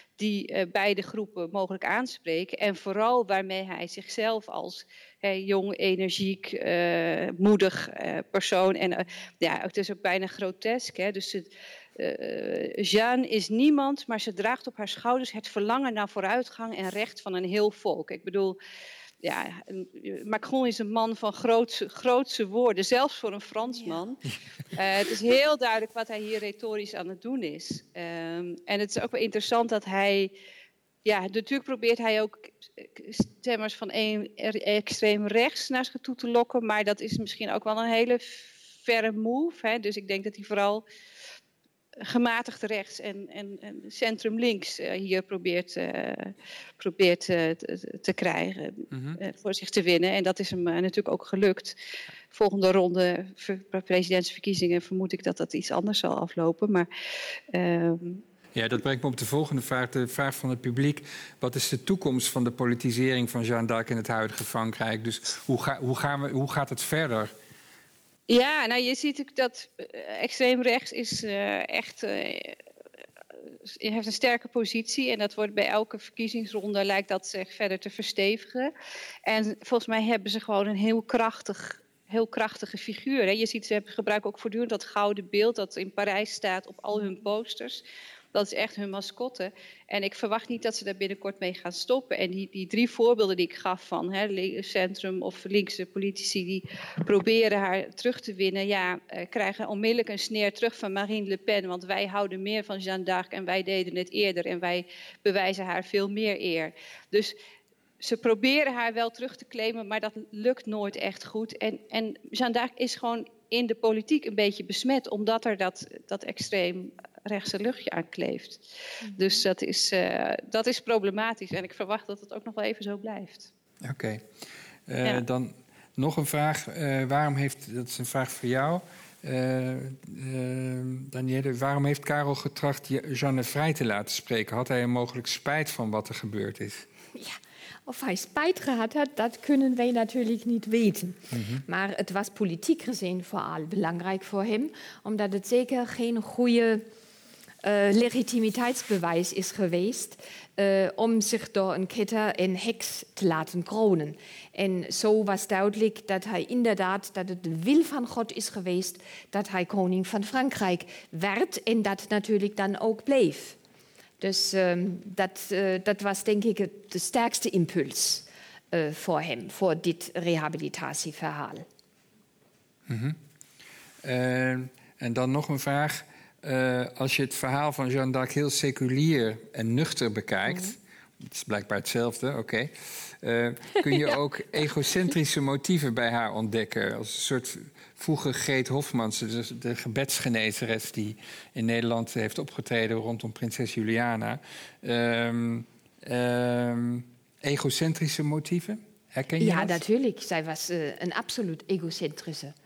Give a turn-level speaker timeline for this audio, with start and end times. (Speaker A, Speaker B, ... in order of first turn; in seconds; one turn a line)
Speaker A: 0.2-18.6
Speaker A: 19.2-24.2
Speaker A: 24.7-30.3
Speaker A: 31.0-40.8
Speaker A: 42.0-51.8
Speaker B: 48.9-49.2
Speaker A: 52.3-56.9
Speaker A: 57.5-58.2
Speaker B: 58.5-67.3
Speaker A: 68.3-72.6
Speaker A: 73.7-78.7
Speaker A: 79.2-107.3
Speaker A: 108.0-123.5
Speaker B: 123.8-124.2
Speaker B: 124.9-136.8
Speaker C: 137.1-146.8
Speaker B: 141.3-141.6
Speaker C: 147.6-163.6
Speaker C: 164.2-171.7
Speaker B: 172.9-173.2
Speaker B: 174.0-199.8
Speaker C: 199.4-202.5